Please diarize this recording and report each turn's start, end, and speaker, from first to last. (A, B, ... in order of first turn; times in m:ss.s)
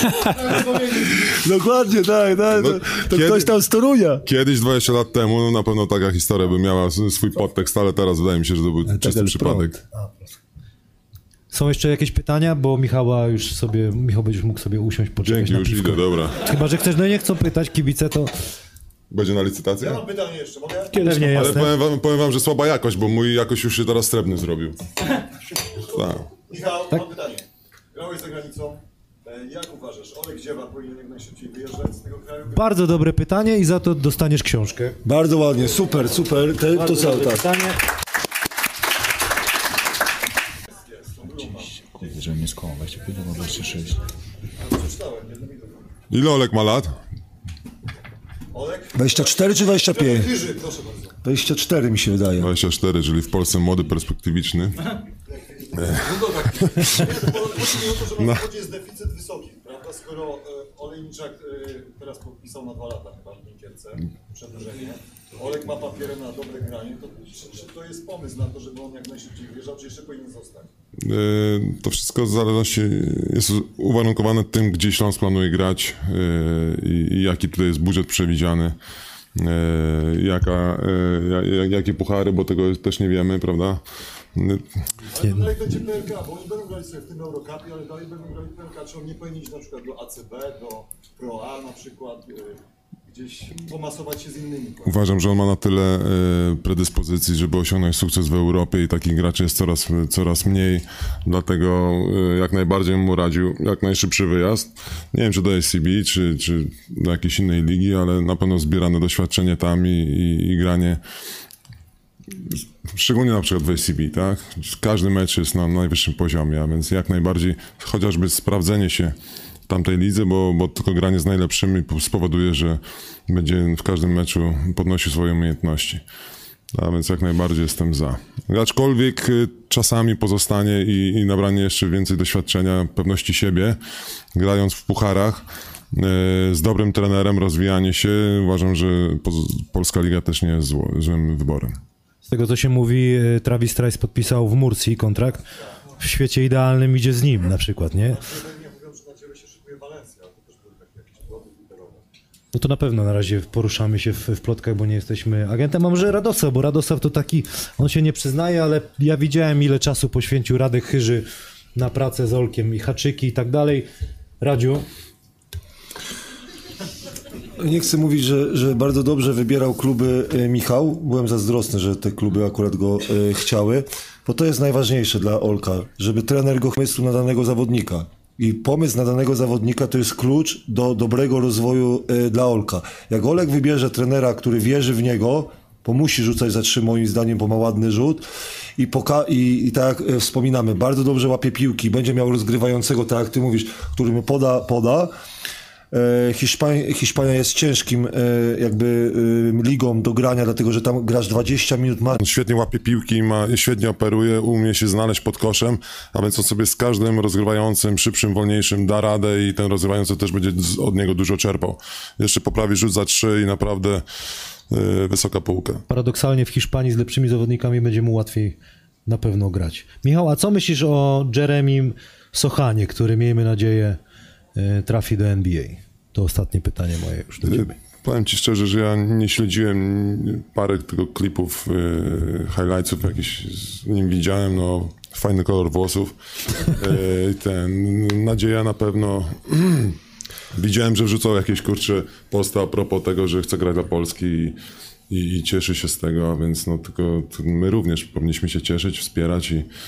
0:01.2-0:04.2 A
0:02.5-0:03.5 B
0:04.2-0:09.8 B
0:08.9-0:10.3 C
0:11.5-0:18.3 C
0:15.2-0:16.4 B
0:19.1-0:20.0 B
0:19.8-0:21.1 D
0:20.9-0:21.7 C
0:21.2-0:24.8 B
0:25.9-0:26.2 B
0:26.5-0:32.7 D
0:32.5-0:35.0 C
0:35.0-0:37.5 A
0:36.7-0:37.8 C
0:40.8-0:41.8 D
0:41.8-0:44.0 E
0:44.6-0:45.8 D
0:46.1-0:46.9 B
0:48.5-0:51.1 D
0:48.9-0:50.3 A
0:51.2-0:52.5 A
0:52.4-0:54.8 B
0:55.3-1:10.7 D
0:56.8-0:57.3 B
0:58.2-0:58.4 B
1:11.0-1:18.8 B
1:19.4-1:23.8 B
1:24.3-1:24.6 B
1:25.1-1:34.9 D
1:25.2-1:25.5 C
1:34.8-1:51.0 B
1:52.9-1:59.1 B
1:59.7-2:06.0 B
2:06.7-2:13.8 B
2:14.3-2:21.8 B
2:22.3-2:25.4 C
2:26.0-2:28.2 C
2:28.1-2:32.0 D
2:32.5-2:41.2 C
2:41.8-2:43.9 C
2:44.4-2:44.8 C
2:47.6-3:08.2 A
3:08.8-3:15.1 A
3:15.9-3:22.2 A
3:22.2-3:34.0 B
3:34.7-3:35.8 B
3:35.9-3:44.0 C
3:44.6-3:47.7 C
3:47.4-4:00.0 B
4:00.6-4:04.6 B
4:05.1-4:09.7 B